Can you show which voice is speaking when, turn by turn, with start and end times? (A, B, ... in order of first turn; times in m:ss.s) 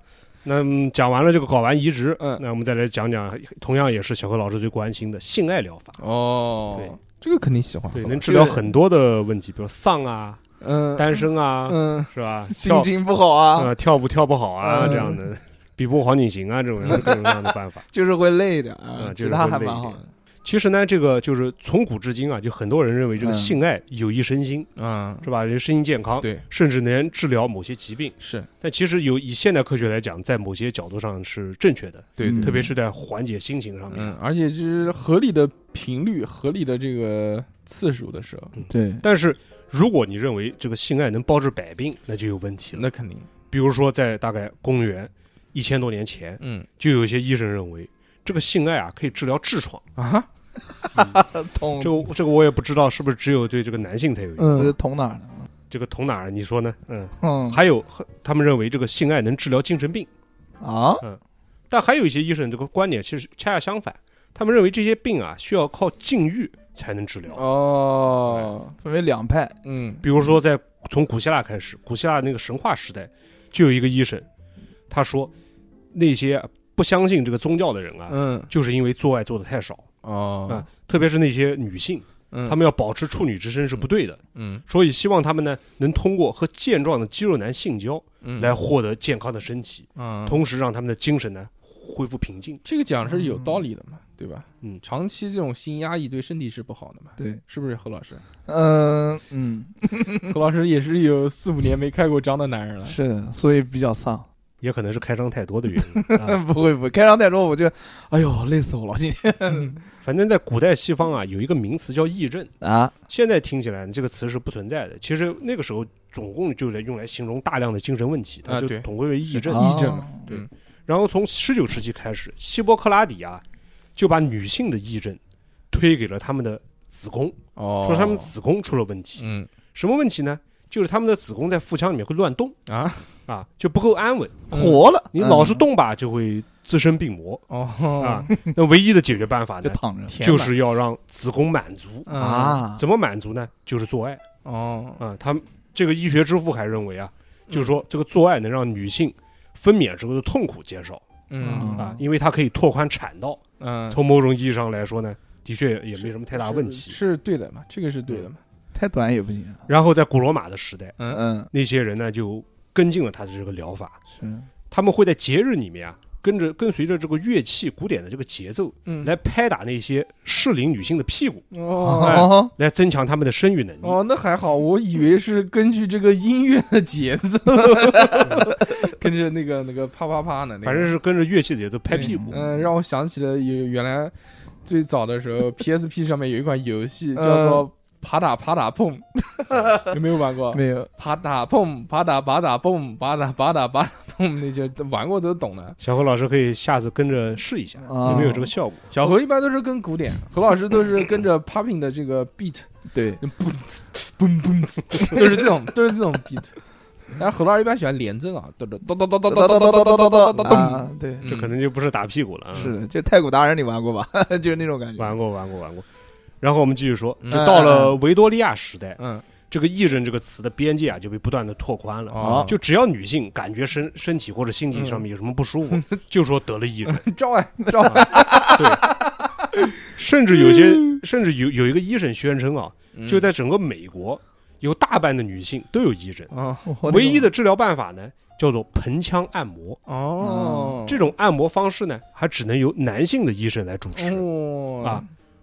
0:00.4-0:06.0 A
0:06.0-0:08.6 B
0:07.9-0:10.4 A
0:10.6-0:12.1 B
0:11.0-0:12.9 A
0:12.5-0:13.7 C
0:12.6-0:12.9 B
0:13.5-0:17.8 A
0:14.6-0:15.2 C
0:14.8-0:15.1 B
0:16.9-0:17.3 C
0:17.9-0:20.1 C
0:19.0-0:24.7 A
0:23.2-0:23.6 C
0:24.8-0:25.3 B
0:25.2-0:34.2 A
0:28.2-0:28.5 B
0:32.2-0:32.7 B
0:32.2-0:32.7 C
0:33.9-0:38.6 B
0:38.6-0:42.8 A
0:38.7-0:39.0 C
0:42.7-0:43.3 B
0:43.5-0:49.8 A
0:46.4-0:46.7 B
0:50.0-0:50.3 B
0:50.8-0:52.0 C
0:50.9-0:51.2 A
0:51.8-0:54.7 A
0:54.4-0:54.7 B
0:54.5-0:55.5 C
0:55.7-1:00.1 A
0:57.2-0:57.6 C
1:00.6-1:01.0 C
1:01.0-1:07.4 A
1:07.3-1:08.7 B
1:08.8-1:09.6 C
1:09.6-1:10.0 B
1:10.0-1:14.2 A
1:14.9-1:15.3 A
1:15.9-1:19.9 A
1:18.1-1:18.5 B
1:20.0-1:20.6 B
1:20.5-1:32.6 A
1:22.3-1:22.6 B
1:24.3-1:24.6 B
1:28.2-1:28.5 B
1:30.0-1:30.4 B
1:32.6-1:38.2 B
1:33.1-1:33.6 C
1:38.4-1:40.3 C
1:40.2-1:43.0 B
1:42.8-1:44.3 C
1:44.6-1:46.4 A
1:45.9-1:49.7 C
1:49.5-1:49.8 B
1:50.0-1:52.5 A
1:52.6-1:52.9 C
1:53.1-2:03.4 A
1:58.5-2:00.5 B
1:59.4-2:00.2 C
2:04.0-2:05.2 A
2:05.7-2:12.5 A
2:07.6-2:08.3 B
2:09.2-2:09.5 B
2:12.7-2:13.1 B
2:13.3-2:14.6 A
2:14.5-2:14.8 B
2:14.5-2:15.6 C
2:15.1-2:17.4 A
2:17.5-2:18.3 B
2:18.0-2:24.2 A
2:19.6-2:20.5 C
2:20.1-2:20.5 B
2:22.0-2:22.6 B
2:22.2-2:22.8 C
2:24.4-2:25.0 B
2:25.0-2:31.0 A
2:27.5-2:27.8 B
2:31.3-2:31.8 B
2:31.4-2:32.0 C
2:31.7-2:37.0 A
2:33.6-2:34.0 B
2:36.0-2:38.4 B
2:38.7-2:39.7 C
2:39.7-2:41.0 A
2:41.1-2:41.5 C
2:41.5-2:44.0 A
2:44.1-2:44.5 C
2:44.7-2:54.0 A
2:48.8-2:49.1 B
2:51.5-2:52.4 B
2:51.8-2:52.5 C
2:53.8-3:00.9 B
3:00.6-3:02.5 A
3:01.9-3:04.1 B
3:02.0-3:02.4 C
3:04.6-3:09.1 B
3:07.2-3:07.6 C
3:09.4-3:09.8 C
3:09.8-3:15.8 B
3:10.5-3:10.9 C
3:15.8-3:18.9 A
3:17.8-3:18.5 C
3:18.0-3:22.7 B
3:22.9-3:23.2 C
3:23.2-3:26.6 B
3:27.1-3:31.5 B
3:29.3-3:31.3 C
3:30.4-3:30.7 A
3:31.2-3:32.7 A
3:32.5-3:35.2 C
3:35.0-3:35.8 A
3:36.4-3:39.0 A
3:37.3-3:38.0 C
3:39.0-3:39.2 B
3:39.5-3:47.0 A
3:42.1-3:42.5 B
3:42.2-3:42.5 C
3:44.7-3:45.0 B
3:45.7-3:46.0 B
3:46.9-3:48.9 B
3:47.7-3:48.9 C
3:47.9-3:48.9 A
3:49.8-3:56.3 A
3:50.4-3:51.0 C
3:52.9-3:53.3 B
3:56.3-3:56.9 B
3:56.6-3:57.2 C
3:56.8-3:59.8 A
3:59.9-4:01.1 B
4:00.2-4:00.8 C
4:00.8-4:04.2 A
4:03.9-4:05.0 B